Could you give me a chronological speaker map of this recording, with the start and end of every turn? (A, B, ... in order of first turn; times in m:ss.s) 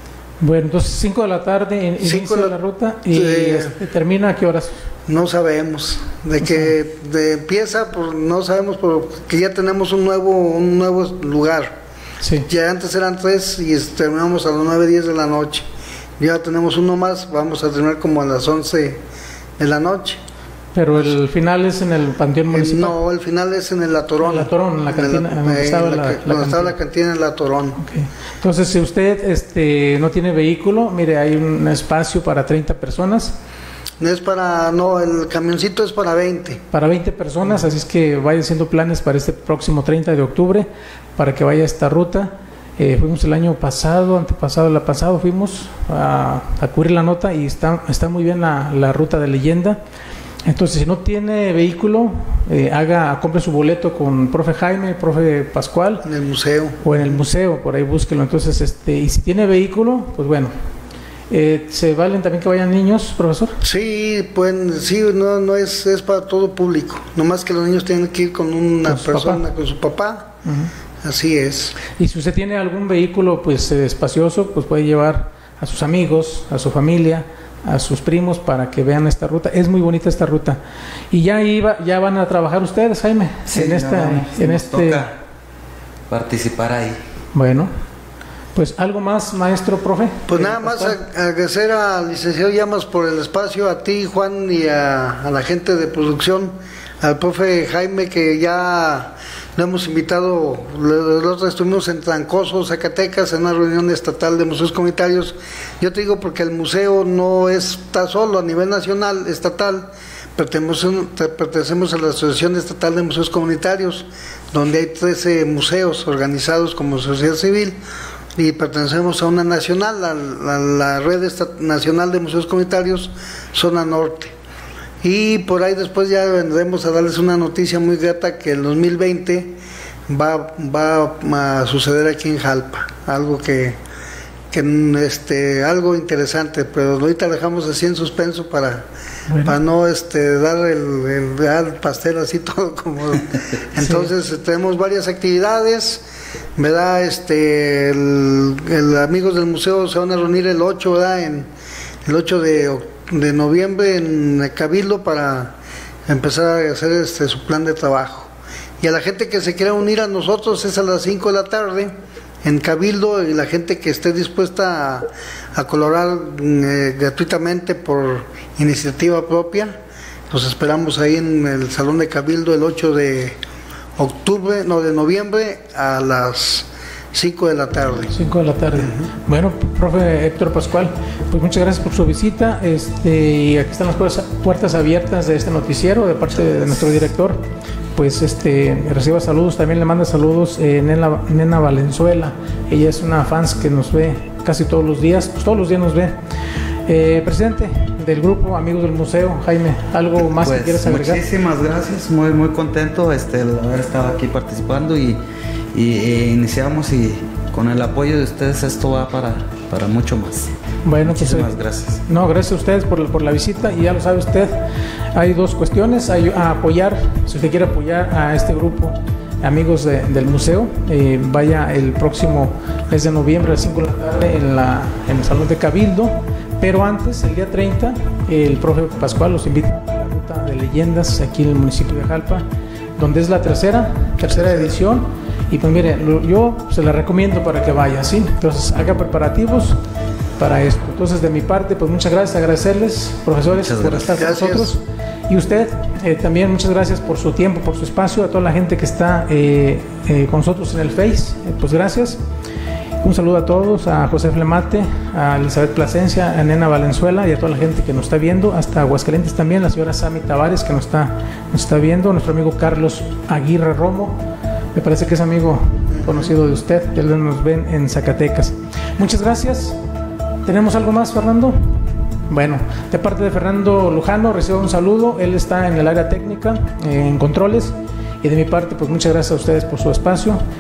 0:00.4-0:04.8 A
0:02.0-0:02.6 B
0:03.1-0:03.8 B
0:05.1-0:11.8 B
0:06.4-0:06.7 A
0:12.2-0:12.5 A
0:12.5-0:15.7 B
0:16.2-0:19.0 B
0:19.6-0:20.2 B
0:20.8-0:23.0 A
0:22.5-0:27.8 B
0:24.2-0:26.8 A
0:27.8-0:33.4 A
0:34.0-0:36.6 B
0:36.7-0:49.8 A
0:50.5-0:56.1 A
0:56.0-0:57.2 B
0:56.8-1:00.5 A
1:01.3-1:03.6 A
1:03.6-1:10.4 B
1:08.9-1:09.4 A
1:10.4-1:10.7 A
1:11.0-1:11.8 B
1:12.0-1:20.6 A
1:21.1-1:25.0 A
1:23.5-1:25.2 C
1:26.1-1:27.0 C
1:27.3-1:27.7 A
1:28.6-1:31.0 A
1:30.3-1:57.8 B
1:58.4-2:04.3 B
2:05.0-2:13.8 B
2:14.5-2:18.9 B
2:19.3-2:19.6 A
2:19.4-2:26.0 B
2:23.8-2:24.1 A
2:26.6-2:31.5 B
2:32.1-2:35.6 B
2:36.1-2:38.3 B
2:38.8-2:53.4 B
2:54.0-2:58.2 B
2:58.1-3:16.2 A
2:58.8-2:59.1 B
3:06.5-3:06.7 B
3:16.9-3:21.2 A
3:20.4-3:25.2 C
3:25.7-3:30.5 C
3:30.8-3:31.5 A
3:31.1-3:32.0 C
3:32.1-3:34.6 A
3:35.1-3:52.5 A
3:53.0-3:59.8 A
3:54.4-3:54.7 B
4:00.4-4:12.2 A
4:03.6-4:04.2 C
4:04.2-4:04.7 B
4:13.0-4:24.2 A
4:24.7-4:29.8 A
4:25.9-4:26.3 B
4:30.5-4:40.4 A